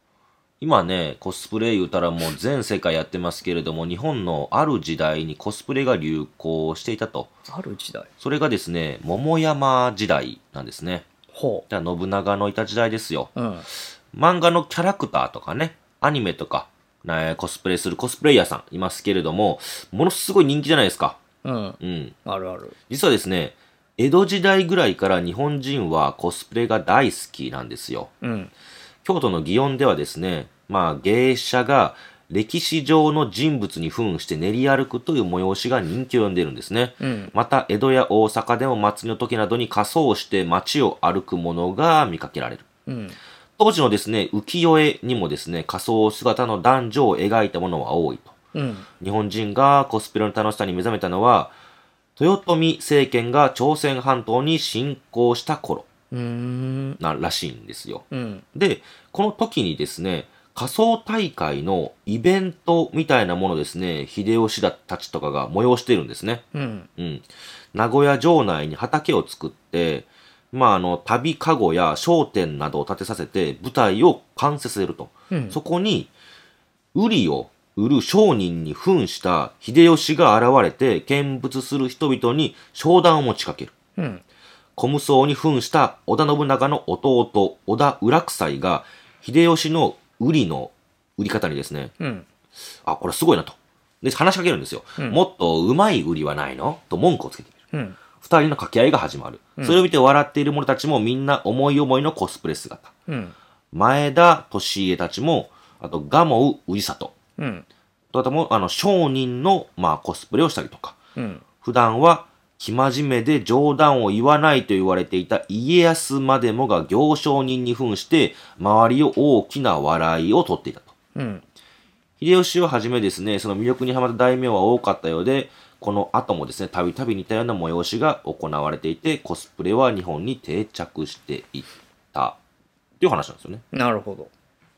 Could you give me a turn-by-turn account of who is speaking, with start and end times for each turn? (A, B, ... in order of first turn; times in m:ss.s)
0:00.6-0:07.3 A
0:07.5-0:08.1 B
0:08.2-0:11.1 A
0:11.3-0:11.7 B
0:11.7-0:13.3 A
0:13.4-0:13.7 B
0:14.1-0:21.2 A
0:21.4-0:22.8 B
0:21.8-0:22.2 A
0:22.9-0:28.1 A
0:28.2-0:28.5 B
0:29.0-0:42.7 A
0:37.0-0:37.3 B
0:42.9-0:43.2 B
0:43.6-0:48.4 A
0:48.5-0:48.9 B
0:49.0-0:51.6 A
0:52.2-0:55.9 A
0:56.1-0:57.0 B
0:57.0-1:06.4 A
0:58.1-0:58.4 B
1:06.5-1:06.9 B
1:07.0-1:16.1 A
1:15.3-1:15.6 B
1:16.9-1:23.7 A
1:24.0-1:24.2 B
1:24.8-1:31.9 A
1:32.0-1:32.3 B
1:32.8-1:37.6 A
1:37.7-1:38.0 B
1:38.2-1:42.9 A
1:43.1-1:43.4 B
1:43.7-1:47.2 A
1:47.4-1:47.7 B
1:48.1-1:51.0 A
1:51.2-1:51.4 B
1:51.6-2:00.9 A
2:01.2-2:01.4 B
2:02.2-2:12.4 A
2:13.0-2:13.6 A
2:13.7-2:14.3 B